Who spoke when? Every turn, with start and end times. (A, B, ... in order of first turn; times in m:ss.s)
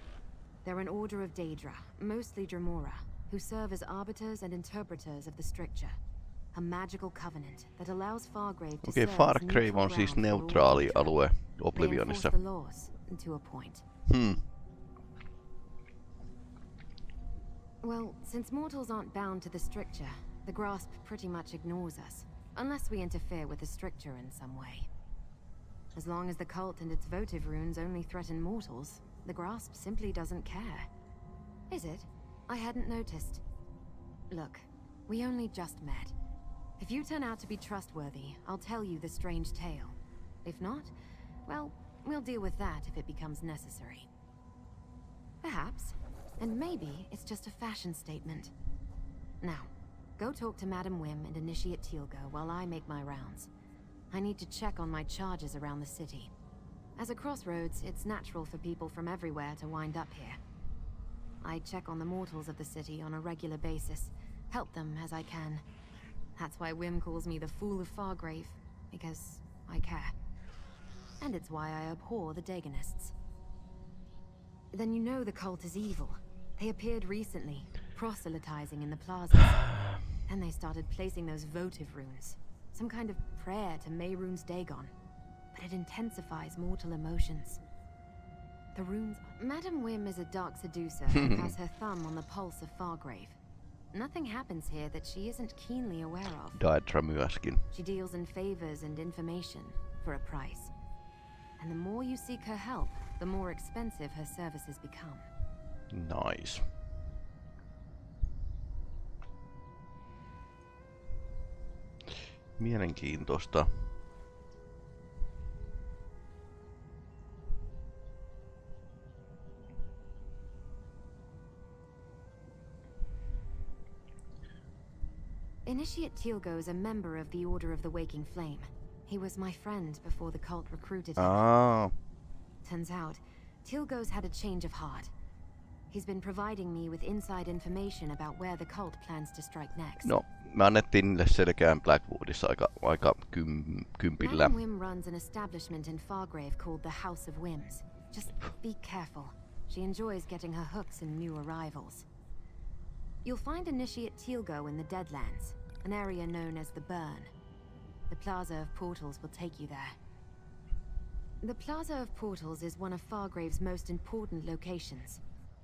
0:00.6-0:06.0 A
0:06.5-0:11.2 A
0:08.8-0:12.4 B
0:11.7-0:13.8 A
0:14.1-0:14.4 B
0:17.8-0:24.9 A
0:25.9-0:30.9 A
0:31.7-0:33.4 A
0:34.3-0:36.1 A
0:36.8-0:40.9 A
0:41.4-0:44.1 A
0:45.4-0:48.5 A
0:49.4-0:53.5 A
0:54.1-0:56.3 A
0:57.0-1:00.4 A
1:01.4-1:05.6 A
1:06.4-1:10.1 A
1:11.2-1:13.1 A
1:14.7-1:19.7 A
1:20.3-1:24.9 A
1:25.5-1:27.6 A
1:28.7-1:33.4 A
1:31.1-1:31.5 B
1:33.9-1:36.6 A
1:36.5-1:37.6 B
1:37.7-1:40.7 A
1:41.6-1:45.3 A
1:45.9-1:46.6 B
1:52.6-1:53.7 B
2:05.6-2:11.4 A
2:11.2-2:11.9 B
2:12.6-2:15.1 A
2:15.9-2:20.1 A
2:20.0-2:24.6 B
2:24.2-2:32.0 A
2:33.2-2:37.3 A
2:38.1-2:40.0 A
2:41.4-2:45.2 A